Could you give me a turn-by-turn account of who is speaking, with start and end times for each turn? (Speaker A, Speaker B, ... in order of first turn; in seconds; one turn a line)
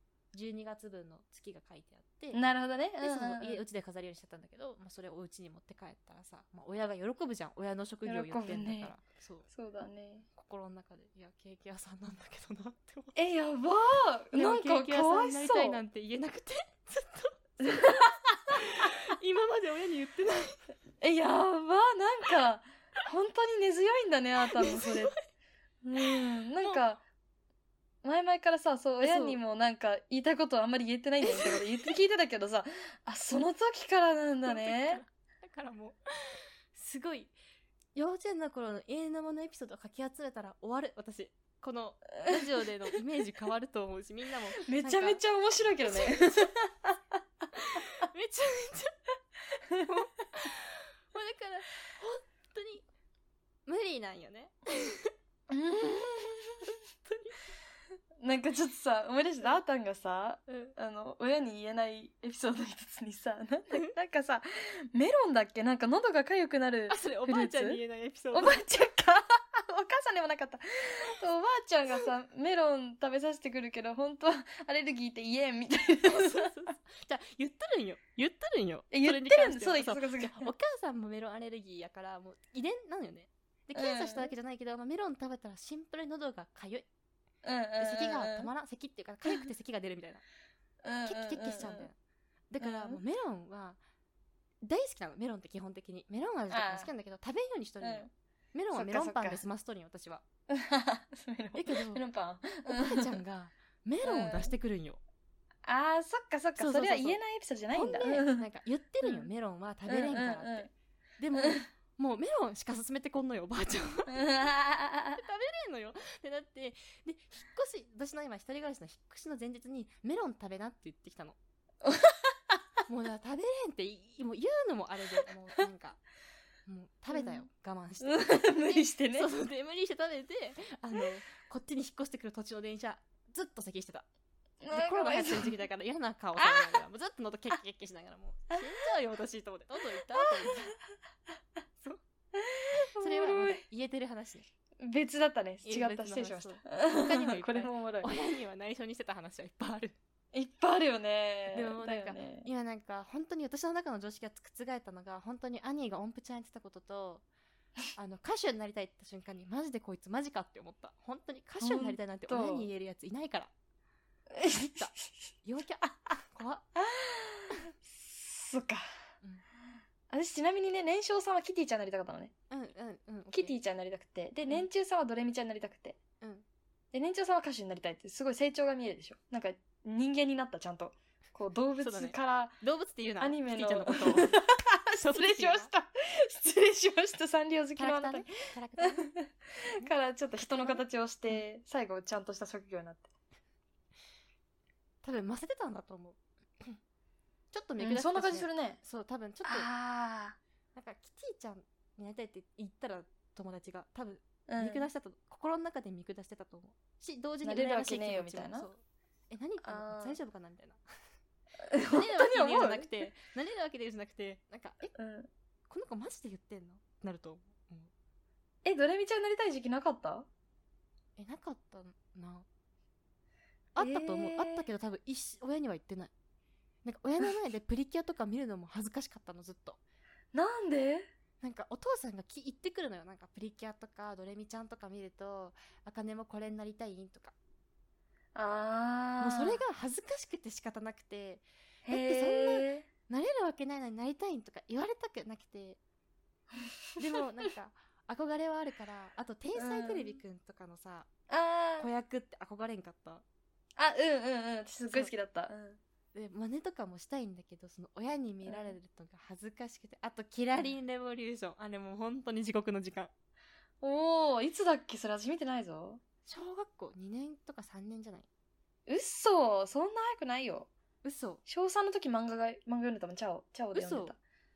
Speaker A: 0.3-2.4
Speaker B: 2.3-3.6
Speaker A: 3.0-9.5
Speaker B: 8.1-8.9
Speaker B: 9.5-10.3
Speaker A: 10.3-13.2
Speaker B: 13.1-15.8
Speaker A: 14.3-20.6
Speaker B: 17.6-18.4
Speaker B: 21.0-25.1
Speaker A: 24.5-25.2
Speaker B: 25.8-27.0
Speaker A: 26.0-26.8
Speaker B: 28.0-35.0
Speaker A: 29.0-29.4
Speaker A: 31.2-31.9
Speaker A: 34.5-37.3
Speaker A: 38.0-45.2
Speaker B: 44.6-47.0
Speaker A: 45.9-46.2
Speaker A: 47.5-49.0
Speaker A: 49.8-52.8
Speaker A: 53.6-55.1
Speaker B: 55.5-56.7
Speaker A: 57.0-57.4
Speaker B: 58.2-67.8
Speaker A: 60.5-60.7
Speaker A: 66.9-68.6
Speaker B: 68.3-76.5
Speaker A: 76.0-86.8
Speaker B: 78.9-80.5
Speaker B: 83.7-84.3
Speaker B: 87.4-88.5
Speaker A: 87.8-90.2
Speaker B: 90.8-91.9
Speaker A: 91.0-92.0
Speaker A: 92.5-93.8
Speaker B: 92.6-93.0
Speaker A: 94.6-100.2
Speaker B: 96.5-96.9
Speaker B: 97.8-98.1
Speaker B: 98.7-99.4
Speaker B: 100.5-103.2
Speaker A: 101.5-102.0
Speaker A: 102.7-105.0
Speaker B: 104.0-104.5
Speaker B: 105.6-108.4
Speaker A: 106.6-107.2
Speaker A: 107.7-114.4
Speaker B: 109.0-109.3
Speaker B: 109.9-110.7
Speaker B: 111.3-111.6
Speaker B: 114.1-115.2
Speaker A: 115.1-121.4
Speaker B: 121.8-122.6
Speaker A: 122.8-126.0
Speaker A: 126.7-134.1
Speaker B: 127.1-127.5
Speaker B: 128.0-129.3
Speaker B: 134.6-135.5
Speaker A: 134.7-140.8
Speaker B: 136.3-136.8
Speaker B: 140.2-140.7
Speaker B: 142.3-143.6
Speaker A: 143.0-144.5
Speaker B: 144.8-148.1
Speaker A: 145.6-150.0
Speaker B: 150.3-152.4
Speaker A: 151.5-157.2
Speaker A: 157.9-163.5
Speaker B: 161.6-162.7
Speaker B: 164.3-165.0
Speaker A: 164.4-166.7
Speaker B: 166.7-168.8
Speaker B: 170.1-172.3
Speaker A: 172.5-173.5
Speaker B: 173.3-176.0
Speaker B: 176.9-182.6
Speaker A: 181.8-184.4
Speaker B: 183.2-193.1
Speaker A: 185.0-185.7
Speaker A: 187.8-189.1
Speaker A: 189.6-191.4
Speaker A: 195.0-196.8
Speaker A: 197.5-199.7
Speaker B: 197.8-198.8
Speaker B: 199.4-200.4
Speaker A: 200.7-210.8
Speaker B: 204.5-204.9
Speaker B: 207.4-208.7
Speaker B: 209.6-210.2
Speaker B: 211.6-212.9
Speaker A: 211.9-214.9
Speaker B: 214.9-215.3
Speaker A: 215.7-217.9
Speaker B: 218.6-220.3
Speaker A: 221.2-222.4
Speaker A: 223.7-226.1
Speaker B: 223.8-224.7
Speaker A: 226.8-229.8
Speaker B: 230.3-231.1
Speaker A: 231.4-237.3
Speaker B: 238.3-239.6
Speaker A: 239.2-245.8
Speaker B: 241.8-242.9
Speaker A: 247.0-251.1
Speaker B: 249.6-250.2
Speaker B: 251.3-251.9
Speaker A: 251.8-253.2
Speaker B: 253.8-255.8
Speaker A: 256.1-263.1
Speaker B: 258.4-258.8
Speaker B: 263.8-266.0
Speaker A: 266.2-268.3
Speaker B: 268.9-270.7
Speaker A: 271.0-271.4
Speaker B: 271.5-274.2
Speaker A: 273.7-274.1